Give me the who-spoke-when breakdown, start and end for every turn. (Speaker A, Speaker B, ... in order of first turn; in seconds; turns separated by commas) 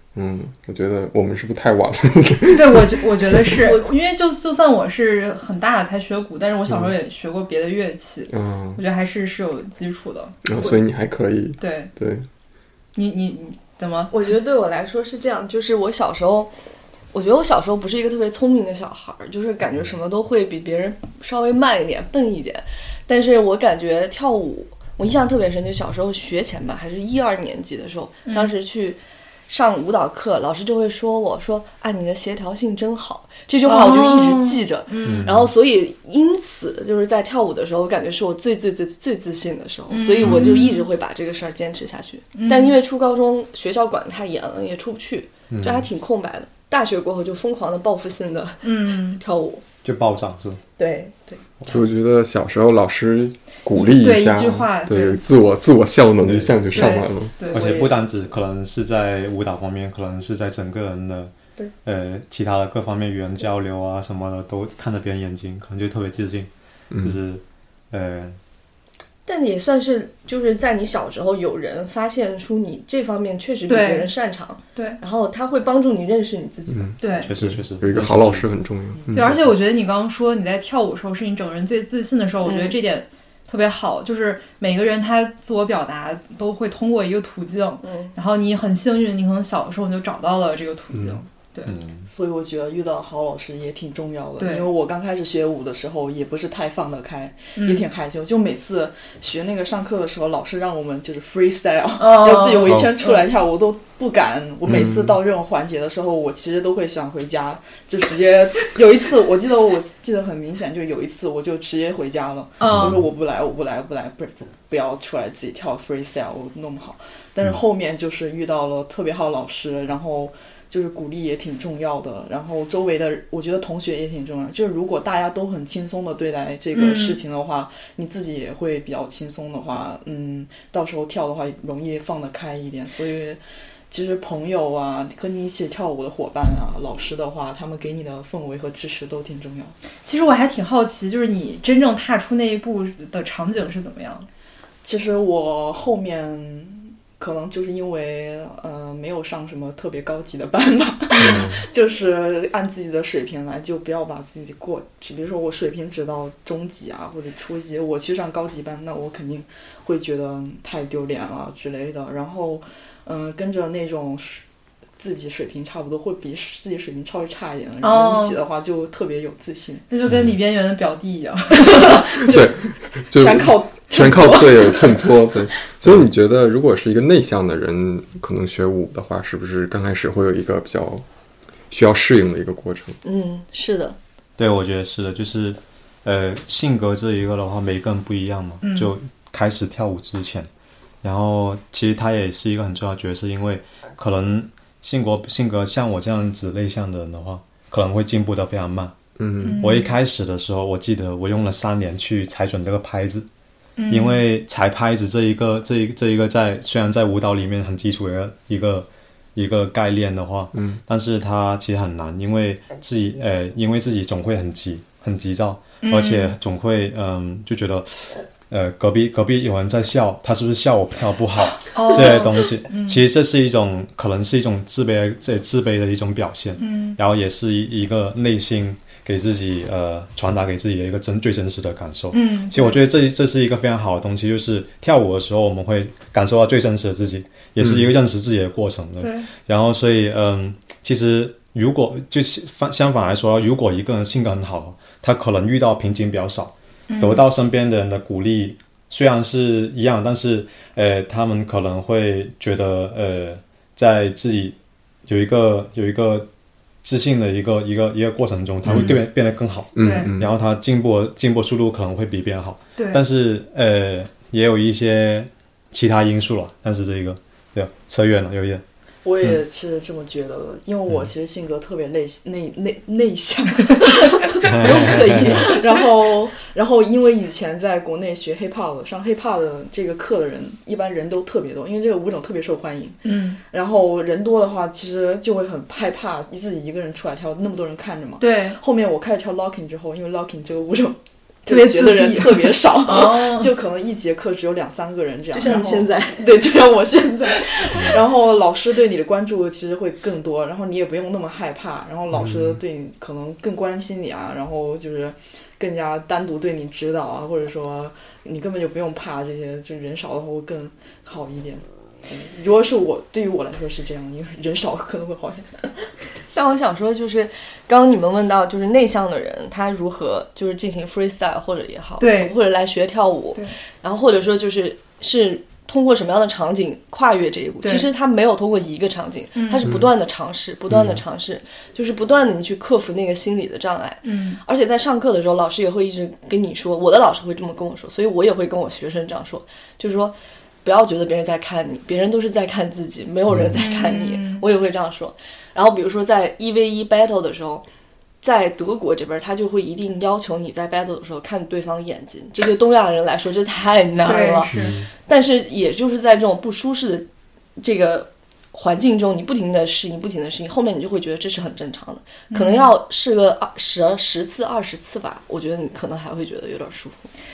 Speaker A: 0.1-3.5, Speaker B: 2.5-10.4, Speaker A: 8.3-8.8, Speaker A: 10.4-12.2, Speaker B: 11.6-11.9, Speaker B: 12.9-14.2, Speaker C: 14.1-16.5, Speaker C: 17.1-49.6, Speaker B: 28.2-28.5, Speaker B: 33.6-35.3, Speaker D: 35.0-35.5, Speaker B: 39.9-40.9, Speaker D: 40.2-40.6, Speaker B: 42.3-42.8, Speaker D: 45.5-45.9, Speaker B: 48.6-49.2, Speaker D: 49.8-50.6, Speaker C: 50.8-51.4, Speaker A: 51.7-57.3, Speaker B: 53.8-55.2, Speaker D: 56.2-57.0, Speaker B: 56.7-57.7, Speaker E: 57.4-58.0, Speaker D: 57.5-61.3, Speaker D: 61.8-66.5, Speaker A: 66.9-67.2, Speaker D: 67.0-68.3, Speaker C: 69.2-77.0, Speaker B: 73.7-74.1, Speaker B: 74.7-75.0, Speaker A: 76.7-79.4, Speaker B: 77.0-77.3, Speaker D: 77.2-78.5, Speaker B: 79.1-91.7, Speaker C: 82.4-82.8, Speaker C: 87.8-88.2, Speaker D: 91.7-92.1, Speaker E: 92.1-139.7, Speaker B: 94.4-94.7, Speaker B: 97.6-97.8, Speaker B: 102.0-103.2, Speaker A: 104.7-105.2, Speaker B: 112.6-113.0, Speaker D: 112.7-113.0, Speaker B: 126.7-127.2, Speaker B: 140.0-144.3, Speaker E: 144.8-164.4, Speaker A: 151.2-151.6, Speaker E: 165.0-169.8, Speaker B: 167.8-168.4, Speaker B: 169.9-172.1, Speaker E: 171.7-172.5, Speaker A: 172.2-181.0, Speaker E: 173.1-175.1, Speaker A: 181.7-183.0, Speaker C: 183.0-183.9, Speaker D: 184.4-190.5, Speaker B: 188.6-188.9, Speaker D: 191.0-198.9, Speaker A: 199.2-199.6, Speaker B: 199.4-199.9, Speaker D: 199.5-203.3, Speaker B: 203.8-204.2, Speaker D: 203.9-256.3, Speaker B: 215.8-216.3, Speaker B: 221.6-223.0, Speaker B: 226.6-227.0, Speaker B: 232.1-232.8, Speaker A: 237.6-237.9, Speaker B: 239.0-239.3, Speaker B: 246.9-247.2, Speaker D: 256.8-268.6, Speaker A: 258.6-259.0, Speaker A: 259.7-260.3, Speaker B: 259.8-260.1, Speaker B: 262.8-263.0, Speaker E: 269.0-283.0, Speaker C: 274.1-275.8, Speaker D: 274.5-275.4, Speaker B: 283.0-283.4, Speaker E: 283.5-315.7, Speaker B: 288.2-288.6, Speaker B: 291.5-293.5, Speaker C: 295.3-296.3, Speaker A: 302.1-302.6, Speaker C: 316.3-347.6, Speaker B: 322.0-322.4, Speaker B: 327.6-327.9, Speaker B: 329.3-329.6, Speaker A: 330.7-331.0, Speaker B: 334.0-334.4, Speaker B: 343.6-344.4, Speaker C: 348.2-354.5, Speaker B: 354.0-354.7, Speaker A: 354.5-354.9, Speaker C: 355.1-357.1, Speaker C: 357.6-367.1, Speaker B: 362.3-362.7